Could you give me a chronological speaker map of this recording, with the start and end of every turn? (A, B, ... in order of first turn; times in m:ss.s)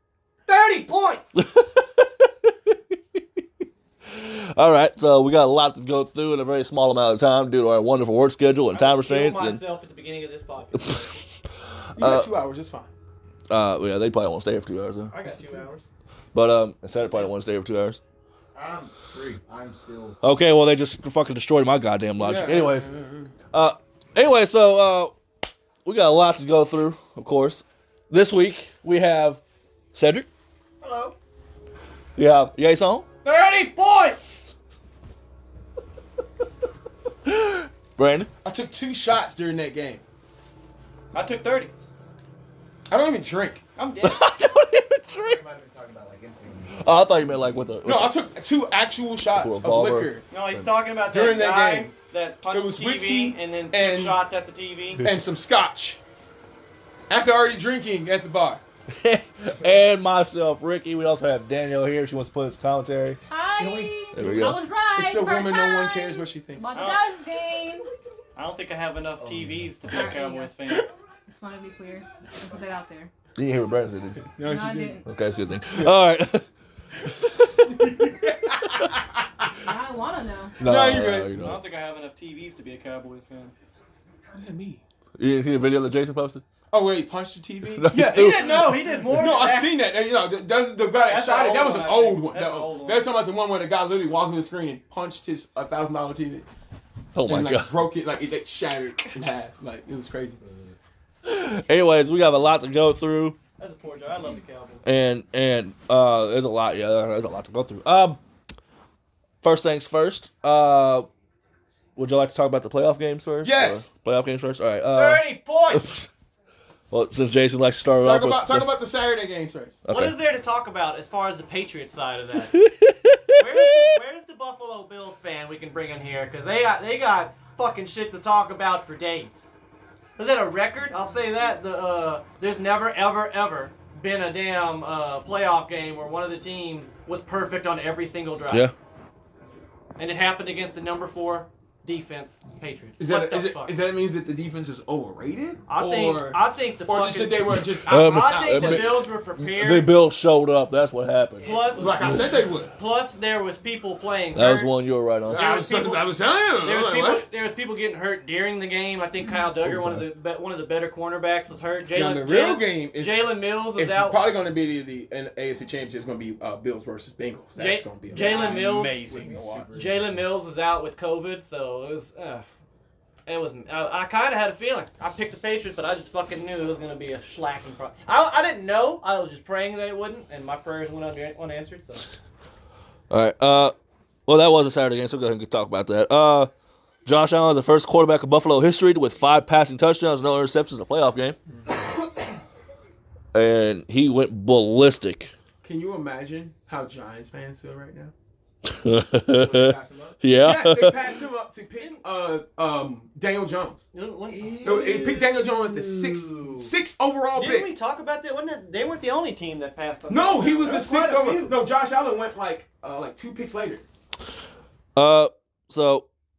0:00.5-0:01.2 A
0:01.3-0:03.2 B
0:04.0-0:09.6 B
0:08.7-0:11.1 A
0:11.7-0:12.3 B
0:12.0-0:12.9 C
0:13.5-0:15.1 B
0:15.1-0:15.8 A
0:16.3-0:18.0 B
0:18.5-0:20.2 D
0:20.2-0:22.9 B
0:22.2-0:23.3 C
0:23.5-0:25.2 B
0:25.8-0:29.4 B
0:29.9-0:30.3 B
0:30.8-0:31.1 D
0:32.2-0:33.0 B
0:33.2-0:34.3 A
0:37.2-0:38.3 B
0:38.4-0:40.0 C
0:41.1-0:41.7 A
0:42.9-0:43.6 C
0:43.8-0:44.2 A
0:44.0-0:45.4 B
0:45.1-0:46.8 D
0:46.8-0:48.1 B
0:47.8-0:50.2 C
0:49.3-0:50.6 B
0:50.3-0:55.0 A
0:51.0-0:51.9 C
0:52.5-0:54.2 C
0:55.0-0:56.0 C
0:57.1-0:58.6 C
0:58.9-1:03.2 B
1:03.3-1:07.9 E
1:04.1-1:04.6 B
1:04.9-1:06.7 C
1:06.7-1:07.0 A
1:08.4-1:10.8 A
1:09.2-1:10.1 D
1:09.9-1:10.6 E
1:11.3-1:13.1 E
1:13.4-1:14.3 B
1:14.4-1:15.0 C
1:14.4-1:15.0 E
1:15.1-1:16.4 B
1:17.1-1:18.1 B
1:17.6-1:18.8 C
1:19.6-1:20.6 E
1:20.6-1:21.6 B
1:20.6-1:21.3 C
1:21.4-1:23.5 A
1:24.3-1:24.8 C
1:25.2-1:26.4 B
1:26.7-1:36.5 C
1:27.8-1:28.8 B
1:28.1-1:29.7 A
1:31.0-1:33.0 A
1:37.1-1:37.8 B
1:37.2-1:40.4 C
1:41.2-1:43.4 B
1:43.6-1:44.8 A
1:44.8-1:48.2 B
1:49.4-1:51.1 B
1:52.0-1:56.1 B
1:53.4-1:53.9 C
1:54.9-1:55.9 A
1:56.9-1:58.7 B
1:58.0-1:59.8 C
1:59.8-2:00.2 B
1:59.9-2:02.6 A
2:02.5-2:03.9 B
2:03.3-2:09.5 A
2:10.2-2:18.7 A
2:20.0-2:23.8 A
2:23.0-2:29.0 C
2:25.7-2:29.9 A
2:27.8-2:32.3 B
2:31.4-2:34.7 A
2:31.7-2:32.7 C
2:34.3-2:35.4 B
2:35.3-2:36.0 A
2:35.3-2:37.3 C
2:36.6-2:44.2 A
2:39.6-2:40.1 B
2:41.9-2:49.7 C
2:47.6-2:49.0 A
2:48.1-2:50.2 D
2:49.7-2:52.5 A
2:53.2-3:02.0 A
3:03.1-3:03.7 B
3:04.2-3:06.5 B
3:07.0-3:11.4 B
3:13.3-3:15.3 B
3:15.6-3:18.1 C
3:18.6-3:21.2 B
3:19.3-3:20.2 D
3:20.4-3:23.8 C
3:23.9-3:25.3 A
3:24.3-3:26.7 D
3:24.6-3:27.7 C
3:27.3-3:31.6 A
3:30.1-3:33.8 C
3:35.0-3:36.0 B